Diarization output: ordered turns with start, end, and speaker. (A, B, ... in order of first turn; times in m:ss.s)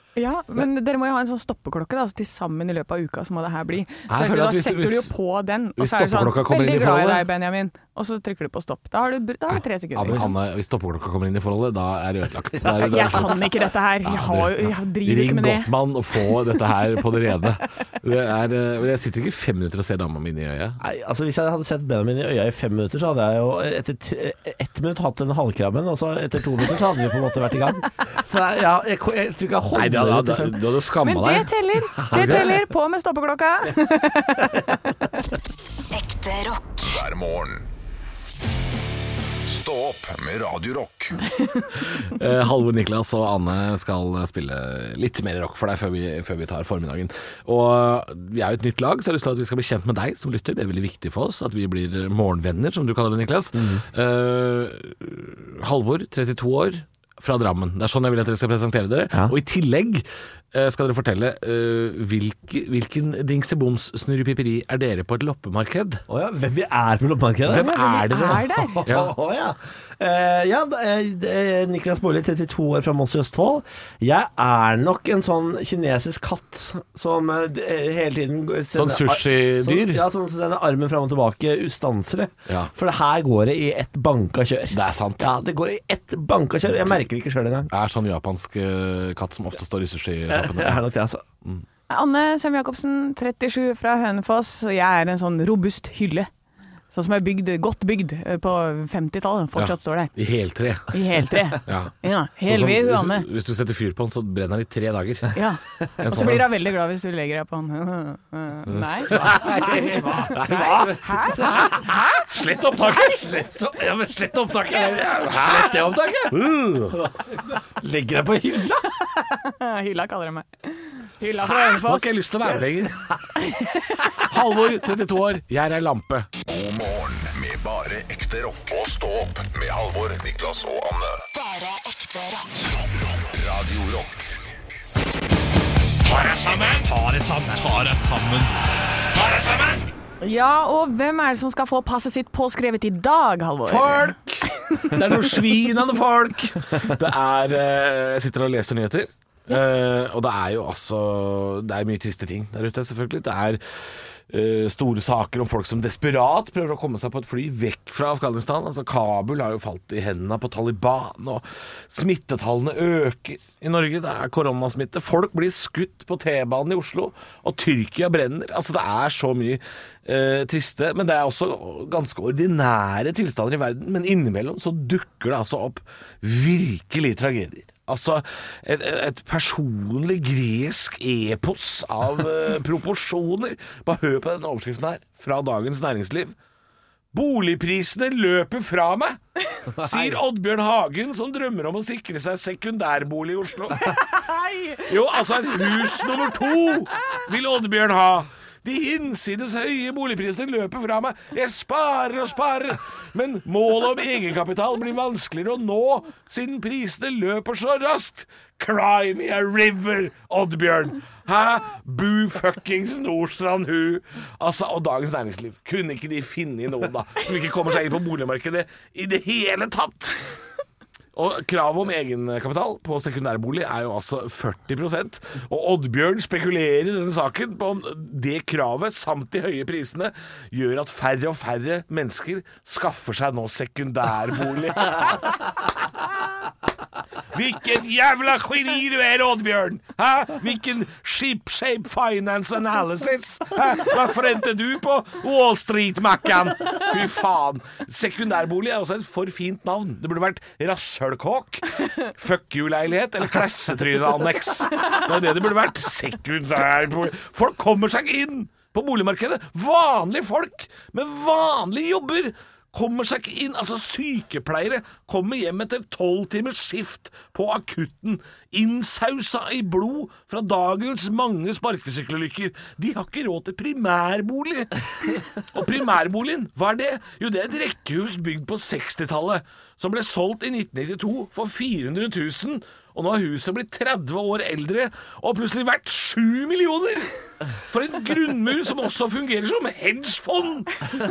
0:00.2-0:10.3 A
0:04.1-0:05.1 B
0:05.8-0:07.3 B
0:10.0-0:13.5 B
0:12.7-0:15.7 A
0:12.7-0:13.1 C
0:14.0-0:20.8 B
0:20.8-0:30.7 C
0:29.7-0:32.5 B
0:31.0-0:34.8 A
0:32.0-0:32.6 C
0:35.9-0:37.0 D
0:36.8-0:37.7 E
0:39.4-0:41.3 E
0:41.4-0:41.7 A
0:41.9-1:06.0 B
0:53.6-0:53.8 C
1:06.1-1:27.7 C
1:07.5-1:09.1 B
1:07.5-1:08.8 A
1:18.7-1:20.0 B
1:24.7-1:25.3 B
1:27.7-1:30.9 B
1:30.3-1:31.2 C
1:31.9-1:36.3 A
1:36.9-1:40.1 A
1:39.6-1:41.0 B
1:40.9-1:43.3 A
1:41.7-1:45.4 B
1:45.3-1:49.4 A
1:46.0-1:46.5 B
1:48.7-1:53.4 B
1:49.1-1:52.0 C
1:50.0-1:52.3 A
1:52.8-1:59.2 C
1:54.7-1:57.0 B
1:59.4-2:02.2 A
2:01.4-2:03.1 B
2:03.4-2:04.3 A
2:04.2-2:06.3 B
2:06.4-2:11.2 E
2:11.3-2:12.8 D
2:13.3-2:14.3 E
2:16.0-2:18.6 B
2:19.1-2:19.9 B
2:20.2-2:24.9 A
2:23.7-2:24.2 C
2:23.8-2:33.6 B
2:34.3-3:06.4 B
3:07.1-3:09.2 B
3:09.8-3:10.2 C
3:09.8-3:14.0 B
3:13.9-3:14.9 A
3:14.8-3:40.2 B
3:41.2-3:55.6 B
3:57.3-4:47.1 B
4:47.7-4:50.9 B